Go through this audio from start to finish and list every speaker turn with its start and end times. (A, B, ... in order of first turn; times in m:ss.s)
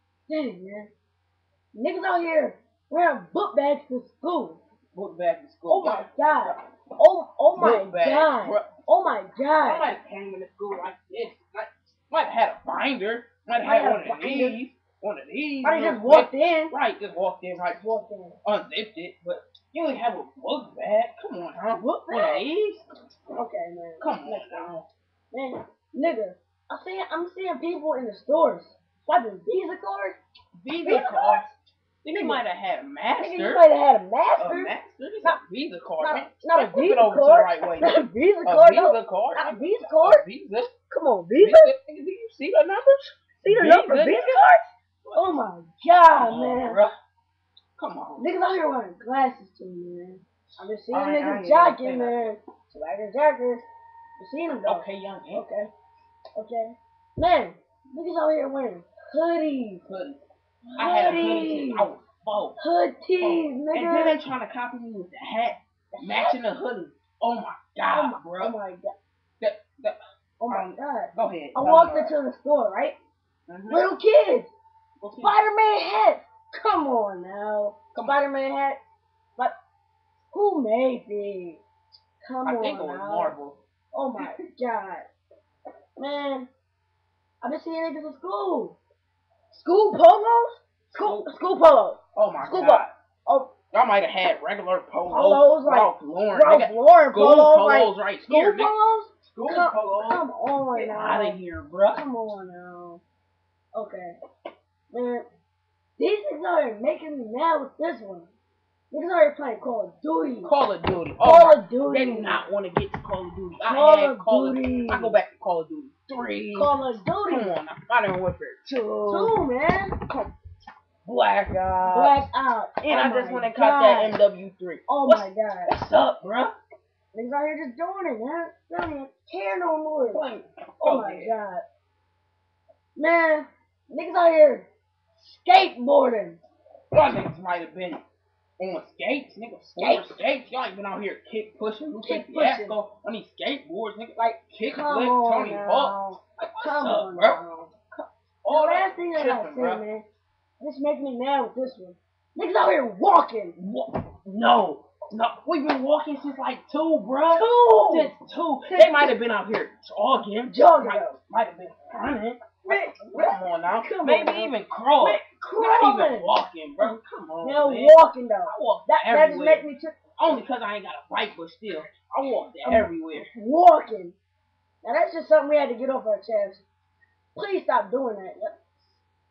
0:00.3-0:00.9 A
0:01.7-0:04.6 A
0:04.9-0:06.6 B
0:05.7-0:09.9 A
0:07.5-0:08.7 B
0:09.6-0:17.8 B
0:13.6-0:14.6 A
0:15.6-0:16.7 A
0:17.8-0:18.4 A
0:18.4-0:22.8 B
0:21.8-0:22.4 A
0:23.4-0:24.7 A
0:24.0-0:24.9 B
0:25.3-0:30.2 A
0:30.6-0:31.5 B
0:30.8-0:31.5 A
0:32.0-0:33.6 B
0:32.1-0:32.4 A
0:33.2-0:35.4 A
0:34.4-0:40.7 B
0:36.0-0:40.2 A
0:40.9-0:41.7 A
0:41.4-0:44.3 B
0:43.4-0:46.8 A
0:45.0-0:45.4 B
0:46.2-0:46.9 B
0:47.8-0:48.3 B
0:48.2-0:53.6 A
0:50.6-0:52.3 B
0:54.2-0:55.7 A
0:54.6-0:55.4 B
0:56.4-0:59.8 A
0:59.8-1:00.2 B
1:00.8-1:01.9 A
1:00.8-1:02.6 B
1:02.6-1:04.2 A
1:03.2-1:08.5 B
1:05.9-1:06.4 A
1:07.9-1:08.9 A
1:09.4-1:10.0 B
1:10.4-1:13.0 A
1:10.5-1:12.2 B
1:13.5-1:13.8 B
1:13.7-1:14.5 A
1:15.0-1:15.3 B
1:15.2-1:18.8 A
1:17.9-1:18.2 B
1:20.3-1:21.6 A
1:22.2-1:23.4 A
1:22.4-1:23.6 B
1:23.9-1:25.0 A
1:26.0-1:26.5 A
1:27.4-1:28.8 A
1:29.5-1:33.5 A
1:30.9-1:31.3 B
1:32.2-1:32.9 B
1:33.7-1:38.7 B
1:35.1-1:41.4 A
1:39.3-1:42.0 B
1:41.9-1:43.0 A
1:43.7-1:44.1 A
1:44.9-1:45.2 A
1:46.0-1:48.3 A
1:48.9-1:50.5 A
1:50.4-1:59.4 B
1:51.2-1:52.4 A
1:53.7-1:55.2 A
1:56.5-1:57.5 A
1:59.0-2:00.0 A
2:00.0-2:00.3 B
2:01.0-2:02.2 B
2:01.8-2:04.2 A
2:02.8-2:06.5 B
2:04.9-2:05.7 A
2:07.1-2:10.2 A
2:10.1-2:11.3 B
2:10.8-2:11.6 A
2:13.0-2:16.4 A
2:16.9-2:18.0 B
2:18.6-2:27.4 B
2:19.8-2:20.2 A
2:22.0-2:22.8 A
2:24.6-2:27.7 A
2:27.9-2:29.8 B
2:28.5-2:30.0 A
2:30.6-2:33.6 A
2:33.6-2:53.3 B
2:37.3-2:38.1 A
2:38.7-2:39.2 A
2:40.4-2:41.2 A
2:42.6-2:50.4 A
2:52.6-2:54.2 A
2:54.8-2:56.6 A
2:57.4-2:58.7 A